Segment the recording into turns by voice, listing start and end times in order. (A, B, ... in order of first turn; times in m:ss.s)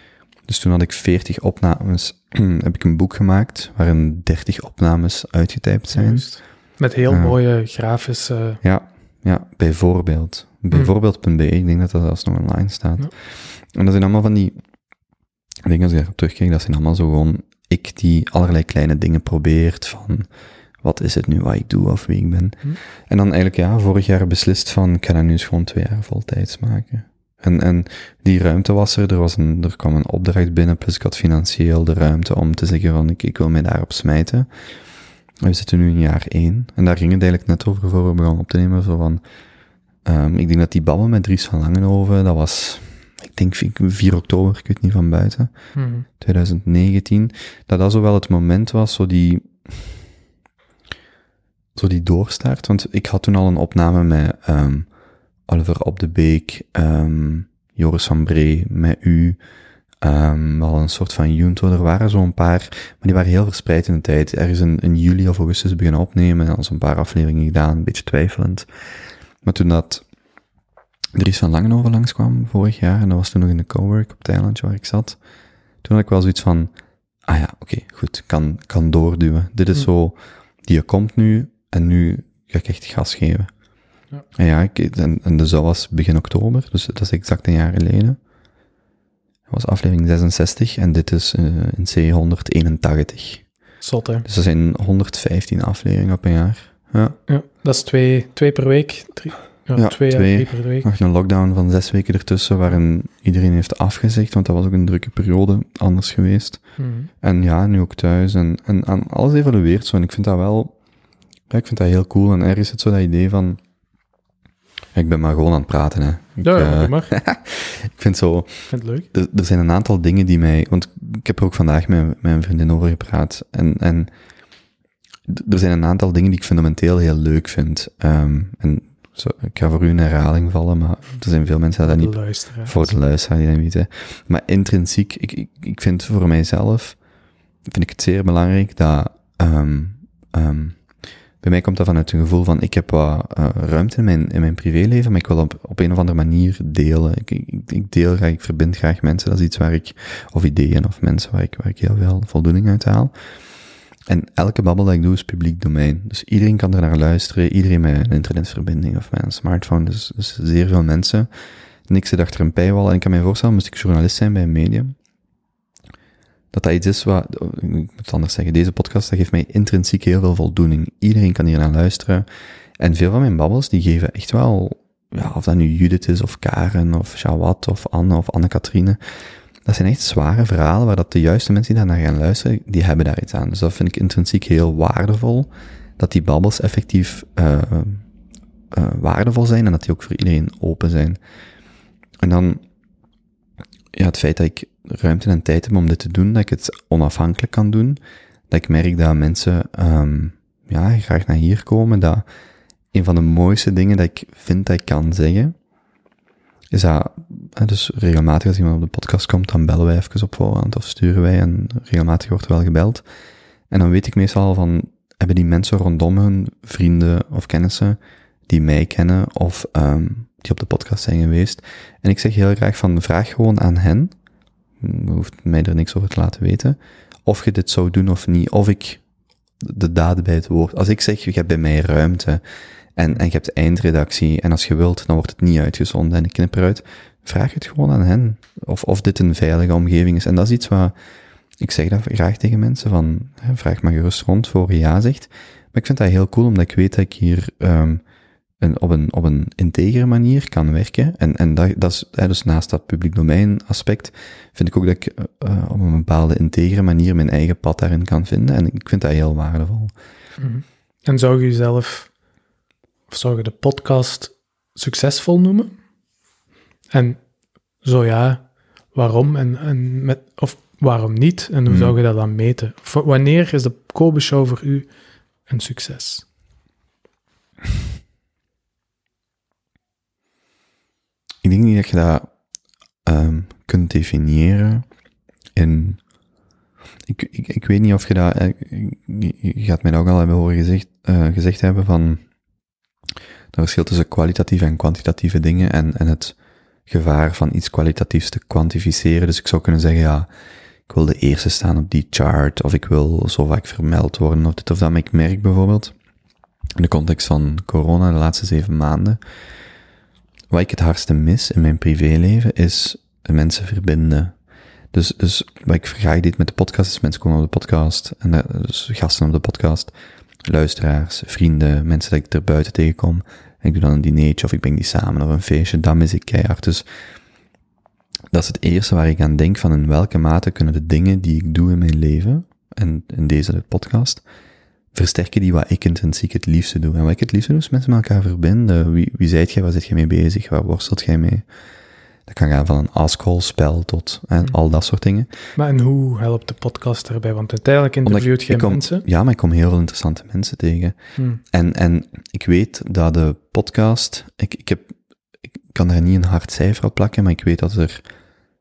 0:00.4-0:06.4 A
0:05.9-0:08.6 B
0:07.1-0:07.4 A
0:08.6-0:14.6 A
0:15.6-0:20.3 A
0:20.8-0:34.5 A
0:35.4-0:39.2 A
0:40.0-0:45.5 A
0:45.8-0:46.0 B
0:46.1-0:50.0 A
0:51.7-0:54.9 A
0:55.5-0:59.4 A
1:00.0-1:08.7 A
1:09.4-1:10.0 A
1:11.1-1:15.2 A
1:15.8-1:16.7 A
1:17.2-1:23.5 A
1:24.3-1:28.2 A
1:29.5-1:33.5 A
1:33.8-1:34.2 B
1:34.2-1:37.2 A
1:37.3-1:40.9 B
1:39.8-1:46.6 A
1:46.8-1:47.1 B
1:47.2-1:50.7 A
1:51.5-1:53.6 A
1:54.9-2:04.1 A
1:56.4-1:57.1 B
1:58.7-1:59.0 B
2:05.3-2:17.0 A
2:11.8-2:12.9 B
2:17.7-2:20.8 A
2:21.4-2:33.1 A
2:34.1-2:41.3 A
2:41.9-2:45.0 A
2:46.5-2:52.3 A
2:52.8-2:59.0 A
2:59.6-3:08.0 A
3:08.7-3:11.2 A
3:12.2-3:12.6 A
3:13.9-3:22.2 A
3:22.9-3:25.5 A
3:26.7-3:33.0 A
3:33.7-3:44.1 A
3:44.8-3:49.0 A
3:49.6-3:52.4 A
3:53.0-4:00.9 A
4:01.6-4:08.0 A
4:08.6-4:19.9 A
4:20.4-4:22.1 B
4:23.1-4:25.8 B
4:26.9-4:27.2 B
4:27.8-4:34.9 B
4:31.7-4:32.0 A
4:35.5-4:36.2 B
4:41.4-4:42.3 A
4:43.0-4:44.8 A
4:45.5-4:46.0 A
4:47.1-4:52.2 A
4:53.5-4:56.4 A
4:56.9-5:00.3 A
5:00.9-5:05.9 A
5:06.8-5:09.2 A
5:10.5-5:14.3 A
5:14.9-5:19.9 A
5:20.4-5:26.8 A
5:28.3-5:34.2 A
5:34.9-5:41.4 A
5:42.3-5:45.3 A
5:45.6-5:49.0 B
5:48.0-5:55.0 A
5:55.7-5:58.0 A